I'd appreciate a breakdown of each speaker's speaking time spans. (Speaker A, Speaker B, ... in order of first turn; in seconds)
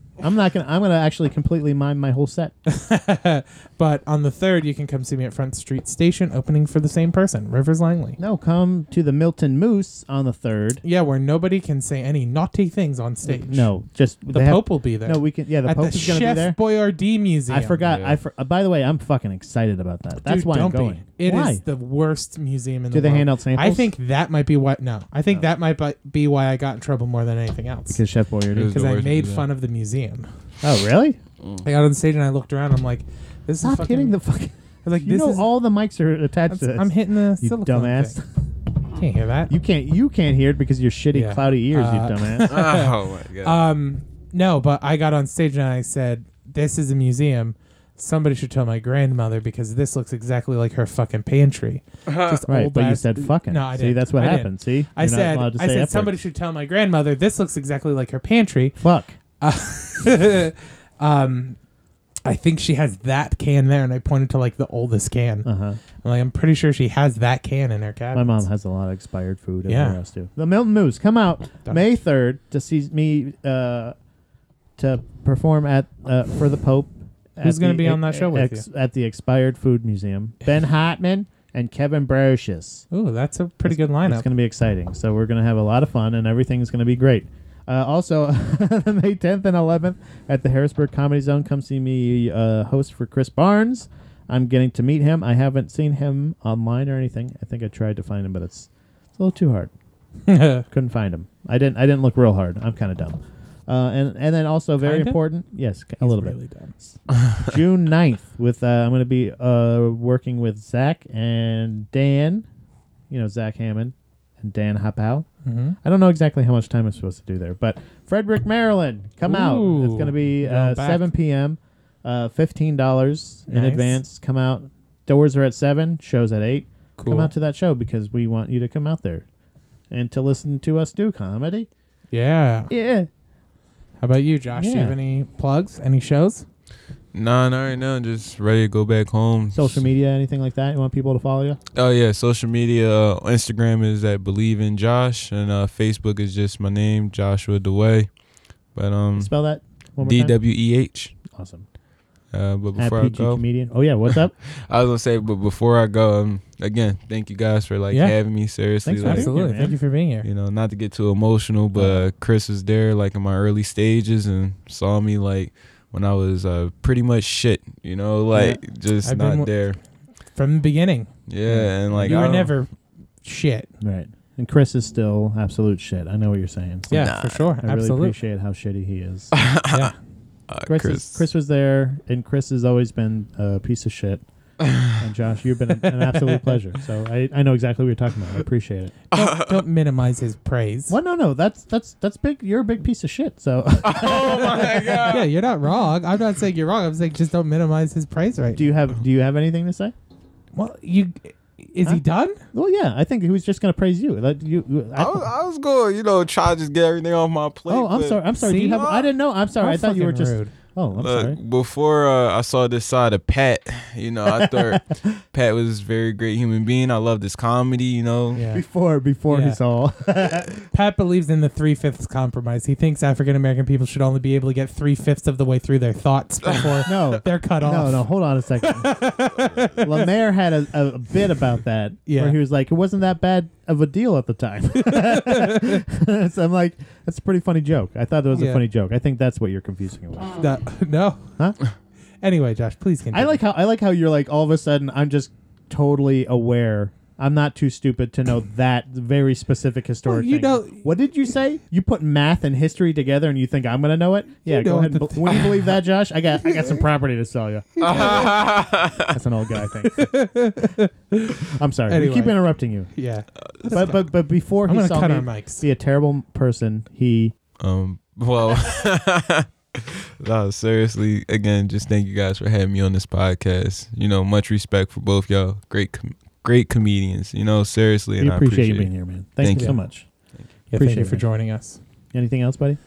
Speaker A: 0.2-2.5, 8.2-10.8, 13.2-16.6, 17.5-21.6, 22.9-23.9, 27.9-28.7, 30.6-31.2, 33.6-38.2, 39.5-42.5, 52.5-56.2, 58.8-59.1, 65.4-65.8, 68.1-73.9, 74.8-82.8, 83.7-99.7, 100.7-112.5, 113.1-115.3, 115.8-129.2, 129.9-131.7, 132.7-133.1, 134.5-134.9, 139.5-141.6, 149.2-150.4, 151.3-151.7, 152.8-154.3, 158.8-159.8, 161.7-162.1, 168.3-168.6, 171.4-172.4, 173.8-179.3, 180.7-184.2, 184.9-188.9, 190.9-195.2, 198.5-199.9, 202.5-205.3, 207.7-211.4, 214.3-215.1, 218.5-220.6, 226.8-229.0, 229.8-240.3, 243.1-258.5, 259.0-260.4, 261.4-262.9, 263.7-267.3, 278.2-280.1, 280.7-281.2, 282.1-282.8
Speaker B: 2.6-8.2, 10.8-13.7, 14.3-17.8, 20.2-28.0, 28.7-30.3, 31.6-34.2, 34.8-35.5, 36.5-38.1, 38.9-39.5, 41.1-58.8, 59.4-61.6, 62.2-65.5, 66.0-68.5, 69.7-70.0, 77.4-78.6, 82.9-84.2, 100.3-100.6, 104.8-105.2, 106.0-106.7, 115.4-115.8, 119.2-121.1, 123.5-124.0, 127.0-127.3, 132.1-132.7, 134.0-136.4, 159.0-160.2, 169.0-169.6, 170.3-171.1, 172.0-173.7, 176.9-178.2, 179.7-179.9, 189.1-190.9, 195.1-198.7, 200.6-202.4, 208.4-208.9, 209.6-210.5, 218.3-218.6, 219.3-219.6, 220.7-228.1, 228.6-230.0, 232.1-232.4, 234.8-235.8, 238.3-238.6, 240.3-241.3, 242.2-243.4, 250.1-250.8, 254.4-255.5, 257.8-258.3, 259.8-264.1, 264.7-265.6, 279.5-279.8, 280.7-281.8
Speaker C: 17.8-18.2, 28.5-29.5, 42.5-43.6, 52.0-52.4, 137.1-139.7, 141.7-148.2, 148.7-149.3, 150.0-151.1, 152.3-153.4, 154.5-159.6, 160.2-169.8, 171.3-172.5, 176.9-177.4, 179.3-179.9, 180.5-181.2, 184.6-184.9, 189.1-189.6, 193.8-195.2, 204.9-209.1, 210.9-218.4, 257.8-259.1, 267.6-279.7